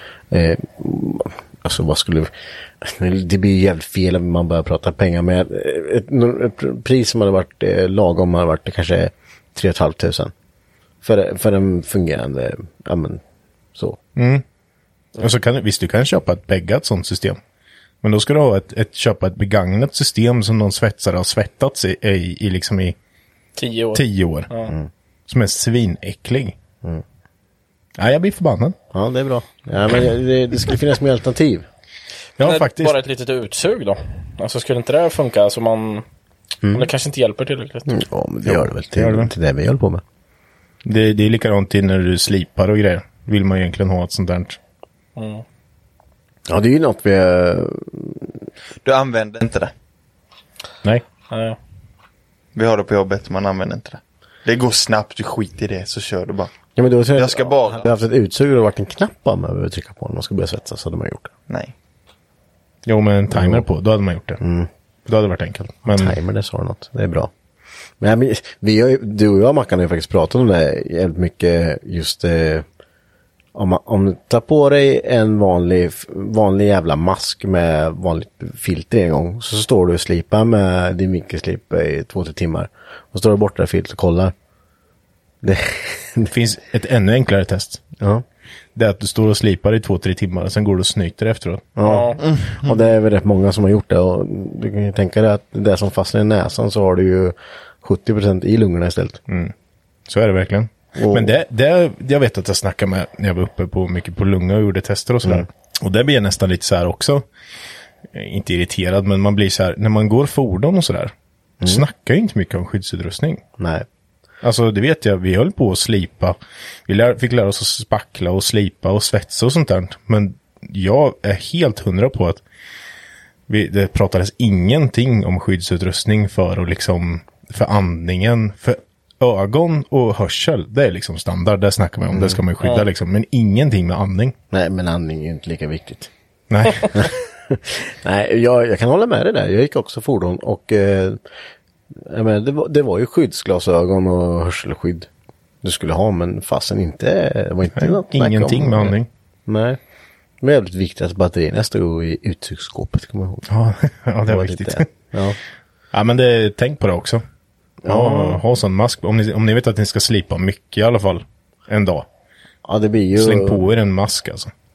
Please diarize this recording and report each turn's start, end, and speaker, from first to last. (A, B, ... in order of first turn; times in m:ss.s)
0:00.3-0:10.3 A
0:11.0-0:13.2 A
0:14.2-0:14.4 B
0:15.2-0:17.4 B
0:18.0-0:23.0 B
0:23.6-0:24.7 C
0:23.9-0:24.5 B
0:25.3-0:26.6 B
0:28.0-0:28.8 B
0:28.9-0:31.7 A
0:32.4-0:33.0 B
0:32.4-0:36.0 C
0:36.6-0:36.9 A
0:36.7-0:38.0 C
0:37.9-0:40.0 A
0:38.4-0:39.3 B
0:40.8-0:44.6 B
0:45.2-0:45.4 C
0:46.5-0:48.4 A
0:48.8-0:49.7 D
0:51.3-0:51.6 C
0:52.5-0:56.5 D
0:56.8-1:01.3 A
0:57.1-0:58.0 D
1:01.5-1:01.7 D
1:02.8-1:04.4 B
1:03.3-1:03.7 A
1:04.4-1:04.7 A
1:05.1-1:06.2 B
1:05.9-1:07.3 A
1:08.0-1:12.6 A
1:13.5-1:24.3 A
1:25.4-1:26.3 A
1:26.3-1:27.8 B
1:28.0-1:28.2 A
1:28.8-1:31.7 B
1:31.8-1:39.2 A
1:31.8-1:32.2 C
1:32.2-1:32.8 D
1:39.3-1:39.5 B
1:40.1-1:47.2 B
1:41.0-1:41.4 A
1:48.1-1:53.4 B
1:53.6-1:53.8 A
1:54.4-2:02.4 B
2:03.5-2:14.4 B
2:12.1-2:12.4 A
2:14.5-2:16.1 A
2:16.5-2:17.1 B
2:16.8-2:21.2 A
2:21.9-2:25.1 A
2:25.6-2:29.0 A
2:27.8-2:29.1 B
2:29.5-2:29.8 A
2:30.4-2:33.4 A
2:33.5-2:34.8 B
2:34.2-2:35.4 A
2:35.9-2:37.2 B
2:37.8-2:38.4 A
2:37.8-2:42.1 B
2:42.6-2:43.7 A
2:43.1-2:44.5 B